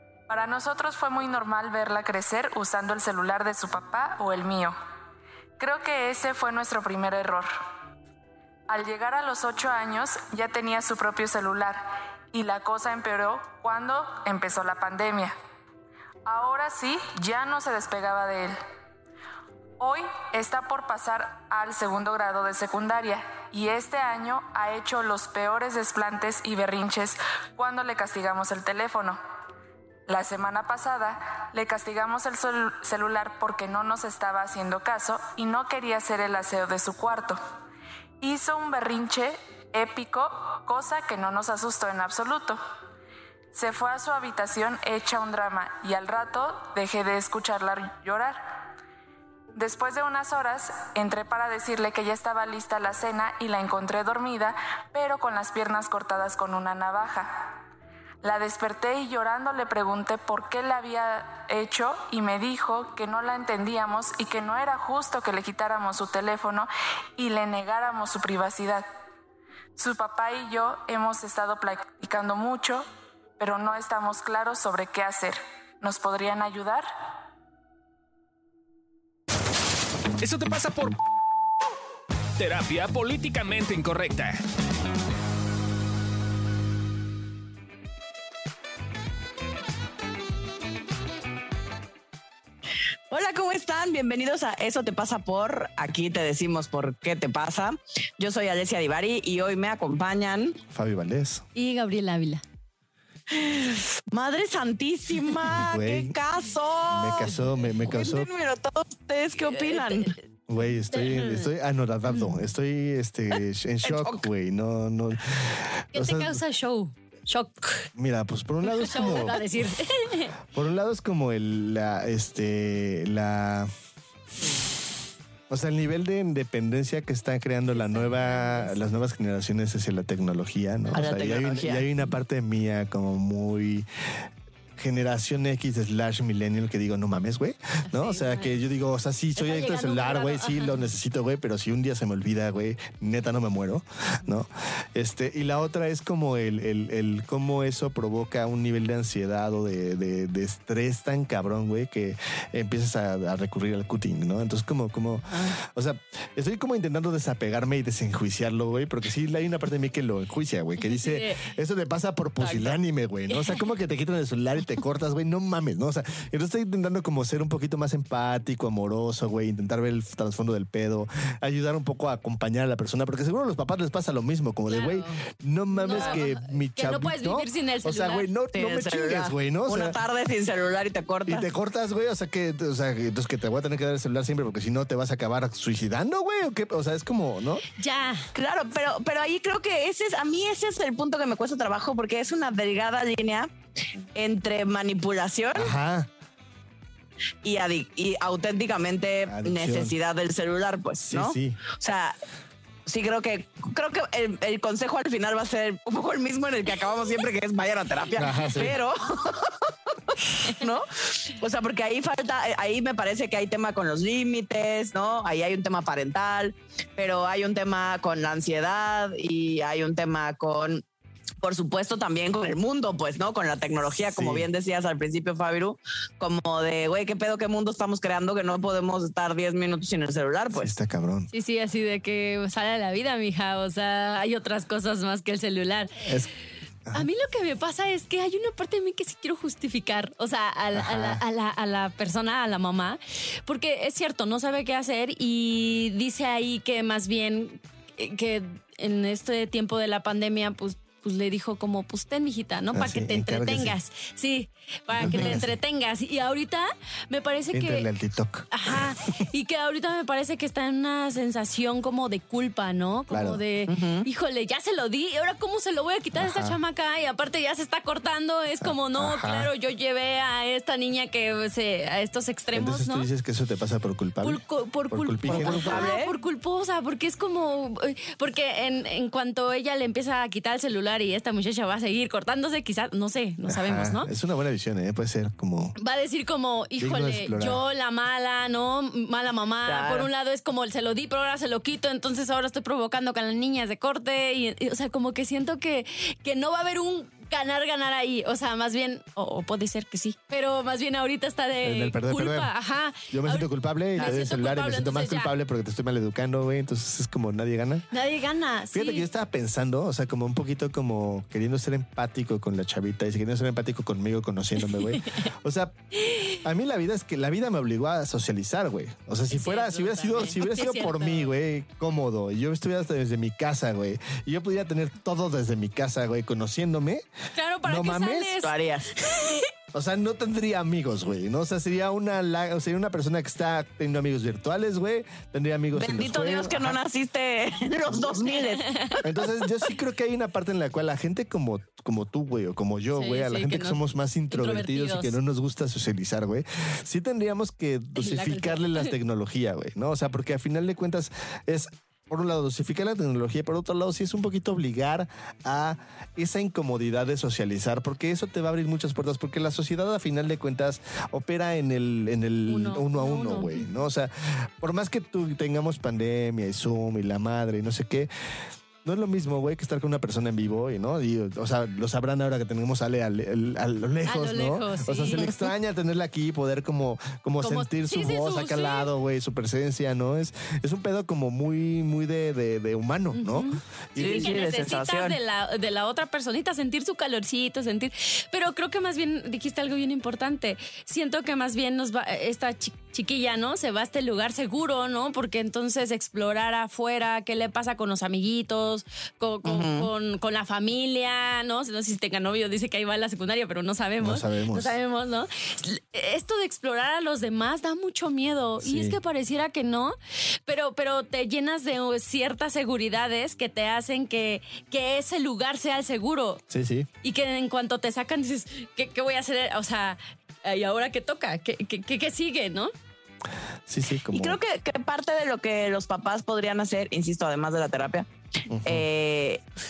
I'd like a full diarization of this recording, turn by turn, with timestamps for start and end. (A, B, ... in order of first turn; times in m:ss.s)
0:00.3-0:04.8 A
0:05.6-0:07.5 A
0:08.7-0:11.8 A
0:12.3-0:15.4 A
0:16.3-0:18.6 A
0:19.8-0:29.2 A
0:30.1-0:37.4 A
0:38.2-0:42.6 A
0:43.5-0:48.4 A
0:49.6-0:57.5 A
0:58.2-1:08.8 A
1:09.8-1:12.8 A
1:13.4-1:16.8 A
1:20.2-1:21.0 B
1:22.4-1:24.4 B
1:33.1-1:40.6 C
1:40.7-1:41.4 D
1:41.6-1:42.4 E
1:43.3-1:47.2 C
1:45.6-1:46.2 D
1:46.9-1:48.3 D
1:47.8-1:50.2 C
1:49.4-1:50.3 E
1:50.5-1:56.4 D
1:50.9-1:51.5 E
1:53.8-1:54.3 C
1:55.9-1:57.9 E
1:58.0-1:59.5 D
1:58.7-2:00.4 E
2:00.5-2:03.7 D
2:05.5-2:13.9 D
2:07.7-2:08.9 E
2:10.9-2:11.9 C
2:14.8-3:00.0 D
2:17.9-2:18.6 E
2:19.4-2:20.8 E
2:35.3-2:35.6 E
2:40.8-2:41.4 E
2:42.4-2:42.8 E
2:43.3-2:43.6 E
2:54.7-2:58.3 E
2:58.5-3:01.5 C
3:01.3-3:07.6 D
3:07.8-3:08.2 E
3:08.4-3:13.5 C
3:14.2-3:15.7 C
3:15.6-3:16.1 D
3:17.4-3:22.2 C
3:19.3-3:19.9 D
3:21.1-3:21.6 D
3:22.9-3:40.8 C
3:28.2-3:28.8 D
3:41.4-3:50.7 C
3:44.1-3:44.5 D
3:50.5-3:51.3 D
3:51.3-3:56.0 E
3:56.0-3:56.3 D
3:56.9-4:17.9 E
4:00.7-4:01.2 D
4:12.7-4:13.8 D
4:15.0-4:15.6 D
4:15.1-4:15.3 C
4:17.5-4:18.5 D
4:18.5-4:33.1 E
4:23.1-4:23.4 D
4:23.7-4:24.1 C
4:26.2-4:26.6 D
4:28.6-4:29.5 D
4:32.5-4:35.9 D
4:34.2-4:44.1 E
4:35.3-4:36.1 C
4:43.5-4:45.8 D
4:45.8-5:05.3 E
4:46.8-4:47.6 D
4:49.7-4:50.1 C
5:01.6-5:02.5 D
5:03.1-5:07.9 D
5:07.9-5:09.1 E
5:08.7-5:15.8 D
5:14.6-5:15.3 E
5:16.1-5:16.4 E
5:16.4-5:27.0 D
5:19.3-5:21.3 E
5:27.4-5:29.5 E
5:27.6-5:28.4 D
5:28.4-5:29.2 C
5:29.7-5:36.8 D
5:35.7-5:38.7 C
5:38.4-5:39.0 E
5:39.0-6:08.1 D
5:42.9-5:45.2 E
5:48.0-5:49.0 E
6:02.5-6:03.7 E
6:08.8-6:24.2 D
6:14.0-6:15.3 E
6:17.4-6:18.9 E
6:23.1-6:56.4 E
6:24.0-6:25.2 C
6:39.4-6:39.9 C
6:44.0-6:44.8 D
6:48.6-6:49.0 D
6:56.5-6:56.9 D
6:57.0-7:02.7 E
7:03.7-7:04.4 D
7:04.1-7:08.1 C
7:08.5-7:08.8 D
7:08.6-7:09.4 C